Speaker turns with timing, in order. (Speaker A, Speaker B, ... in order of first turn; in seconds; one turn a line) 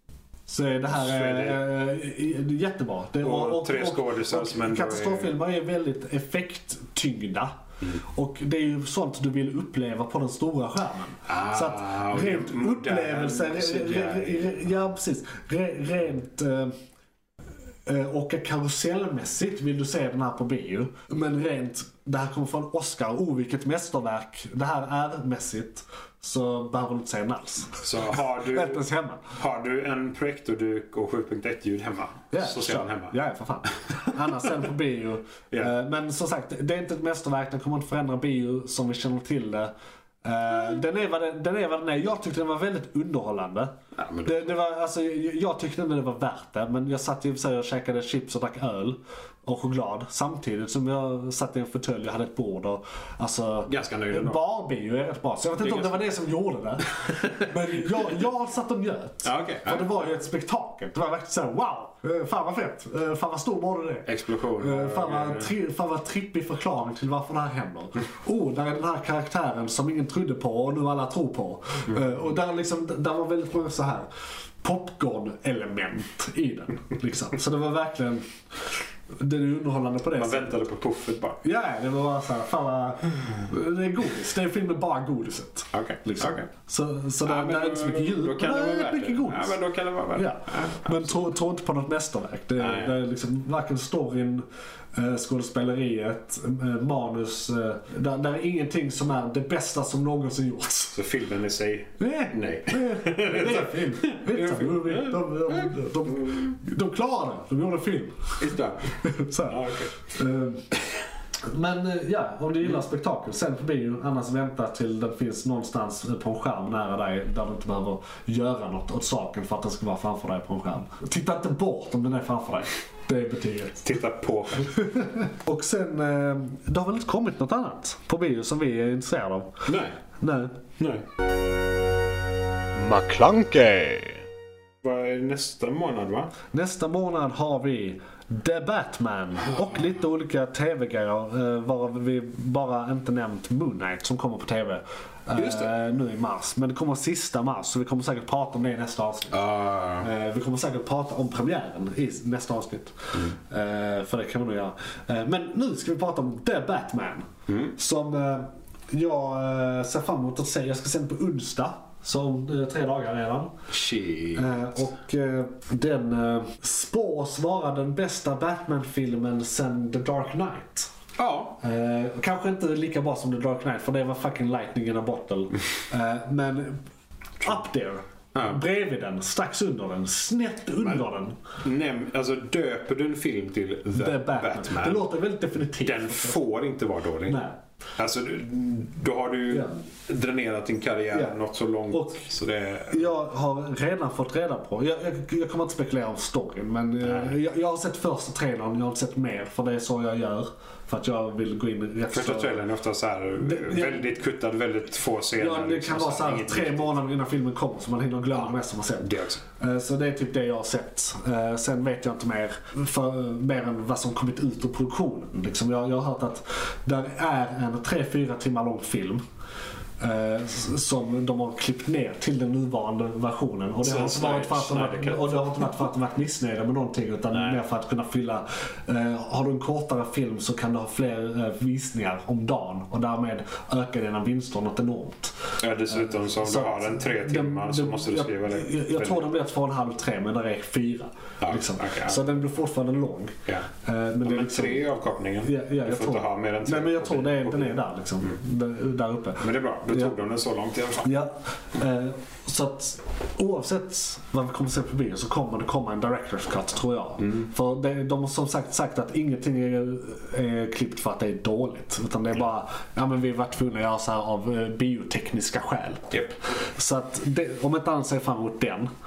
Speaker A: 0.5-16.7
Speaker B: 0.8-1.6
Speaker B: 3.2-5.3
Speaker B: 11.3-14.6
Speaker A: 17.9-29.2
Speaker B: 27.8-33.1
Speaker A: 32.3-39.7
Speaker A: 40.2-43.7
Speaker B: 43.9-44.5
Speaker A: 44.2-74.1
Speaker B: 53.7-54.4
Speaker B: 55.6-56.0
Speaker B: 59.2-60.0
Speaker B: 64.0-65.5
Speaker A: 74.6-78.2
Speaker A: 79.1-80.6
Speaker B: 80.1-81.4
Speaker A: 81.4-101.0
Speaker B: 85.7-86.5
Speaker B: 87.2-91.3
Speaker B: 92.6-93.0
Speaker B: 100.9-106.5
Speaker A: 102.0-108.4
Speaker B: 108.4-109.9
Speaker A: 109.0-110.7
Speaker A: 111.5-123.8
Speaker B: 123.8-124.8
Speaker A: 124.7-129.6
Speaker B: 129.7-130.0
Speaker A: 130.2-130.6
Speaker B: 130.8-131.0
Speaker A: 132.8-134.2
Speaker B: 134.8-136.3
Speaker A: 136.5-163.5
Speaker B: 145.3-145.7
Speaker B: 149.3-150.1
Speaker B: 157.5-157.7
Speaker B: 163.7-164.5
Speaker A: 164.3-170.9
Speaker B: 171.2-171.6
Speaker A: 171.6-176.8
Speaker A: 177.4-181.4
Speaker B: 178.3-178.6
Speaker B: 180.8-181.1
Speaker B: 181.6-185.1
Speaker A: 183.9-186.3
Speaker B: 185.8-187.4
Speaker A: 187.3-187.6
Speaker B: 188.0-193.1
Speaker A: 189.5-189.8
Speaker A: 191.1-192.3
Speaker A: 192.9-202.6
Speaker B: 197.0-197.4
Speaker B: 202.1-207.0
Speaker A: 203.4-204.1
Speaker A: 205.4-219.2
Speaker B: 208.3-209.4
Speaker A: 220.0-250.1
Speaker B: 223.8-225.8
Speaker B: 227.3-227.6
Speaker B: 235.6-239.3
Speaker B: 241.4-242.2
Speaker B: 244.2-248.3
Speaker B: 249.4-251.1
Speaker A: 251.0-268.9